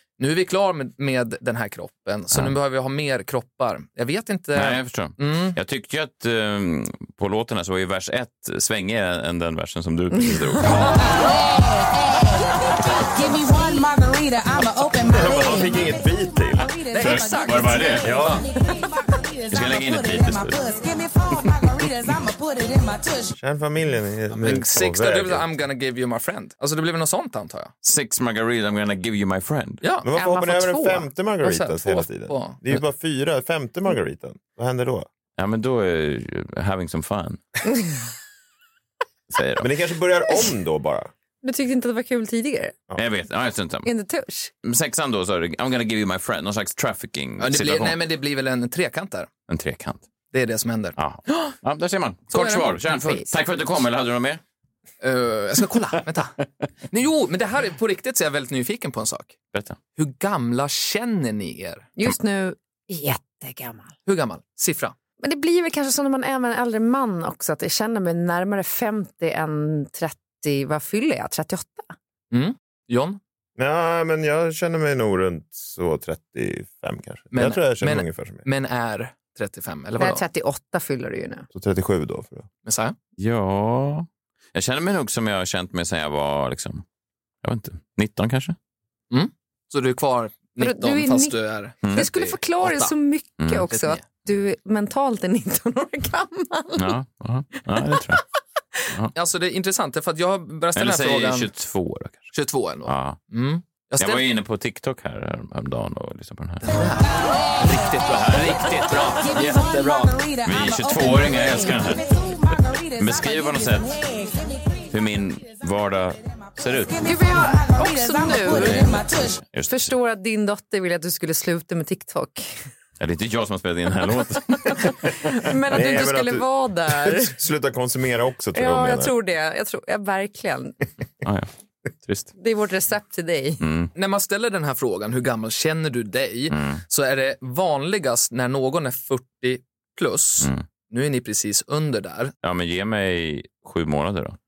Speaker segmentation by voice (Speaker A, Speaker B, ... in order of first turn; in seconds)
Speaker A: 0.2-5.6, 18.0-18.4, 24.4-27.7, 29.8-30.1, 31.4-32.8, 47.4-49.3, 50.3-51.5, 52.3-52.7, 55.0-56.4, 56.9-59.3, 60.0-61.9, 64.1-64.9, 72.3-73.2, 77.3-80.2, 82.7-83.0, 89.1-92.9, 93.7-94.0, 99.2-101.5, 102.3-104.2, 106.7-110.1, 133.9-142.3
Speaker B: 4.5-11.0, 17.0-18.4, 19.5-20.8, 27.8-29.8, 35.4-37.4, 39.3-39.7, 43.0-43.9, 44.6-48.0, 49.5-50.0, 51.0-54.4, 83.2-86.8, 87.4-88.6, 96.8-98.2, 100.8-102.3, 102.9-103.2, 104.0-106.7, 108.1-108.7, 109.3-109.7, 110.4-112.1, 113.0-114.0, 114.9-117.0, 118.4-119.9, 123.0-125.1, 131.2-131.5, 132.0-132.3, 133.6-133.9, 136.5-136.8, 142.4-144.4
Speaker C: 10.9-23.4, 109.2-114.9, 116.6-119.4
Speaker D: 15.1-16.7, 23.4-25.4, 30.1-35.1, 39.6-41.1, 73.6-78.4, 81.5-82.5, 125.7-129.1
Speaker E: 30.1-31.1, 41.4-42.8, 43.9-44.5, 52.9-53.3, 62.0-63.9, 65.2-71.9, 80.0-81.5, 90.6-91.4, 91.9-97.0, 97.8-98.2, 117.0-119.0, 119.7-122.6, 124.7-127.3, 128.6-130.8, 132.4-133.6